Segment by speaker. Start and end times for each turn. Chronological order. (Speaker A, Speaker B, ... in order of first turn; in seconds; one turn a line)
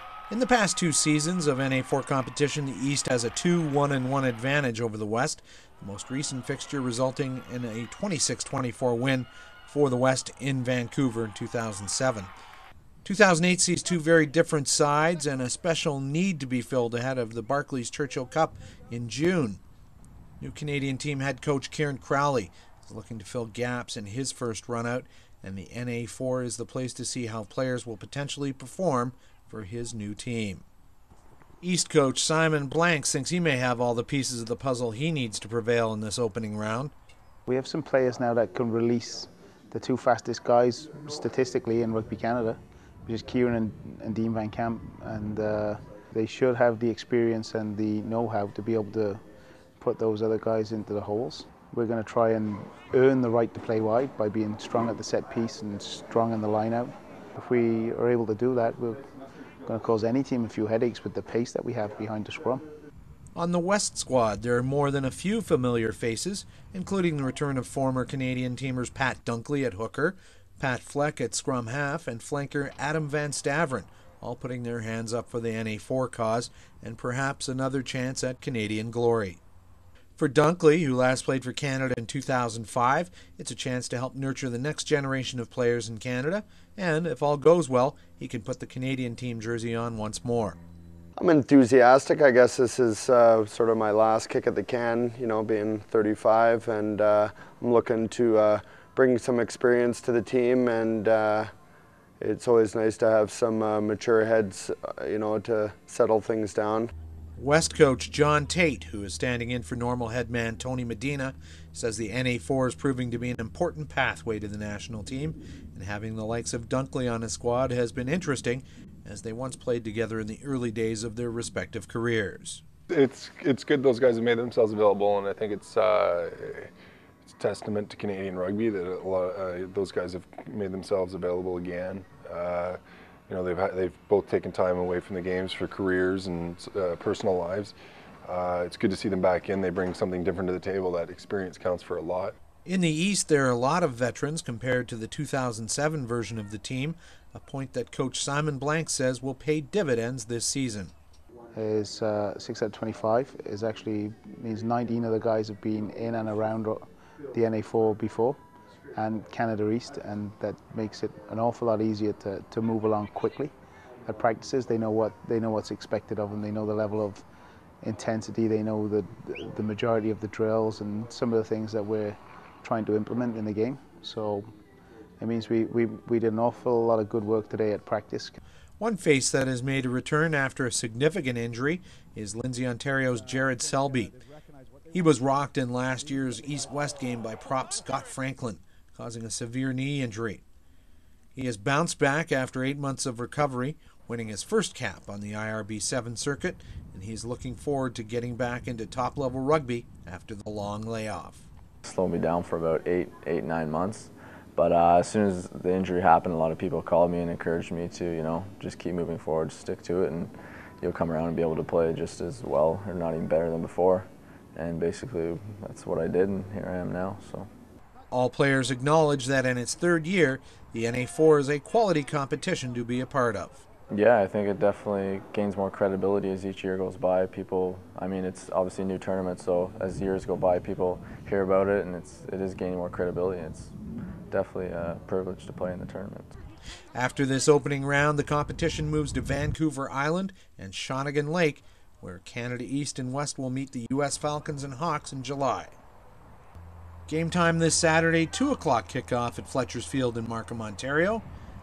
Speaker A: 0.3-12.3
Speaker A: 13.0-19.6
Speaker A: 20.4-30.6
Speaker A: 31.6-36.9
Speaker B: 37.5-49.2
Speaker B: 49.8-59.0
Speaker B: 59.7-62.6
Speaker A: 63.4-79.4
Speaker A: 80.2-90.6
Speaker C: 91.2-101.5
Speaker C: 102.2-106.9
Speaker A: 107.4-122.6
Speaker D: 122.9-126.7
Speaker D: 127.2-137.7
Speaker D: 138.3-142.4
Speaker A: 142.7-150.9
Speaker B: 151.5-158.4
Speaker B: 158.9-163.5
Speaker B: 164.1-167.2
Speaker B: 167.8-174.6
Speaker B: 175.2-178.4
Speaker A: 178.8-184.2
Speaker A: 184.9-190.4
Speaker A: 191.3-201.5
Speaker E: 201.8-217.5
Speaker A: 218.1-223.7
Speaker E: 223.9-233.7
Speaker E: 234.3-236.4
Speaker A: 236.9-245.8
Speaker A: 247.1-251.2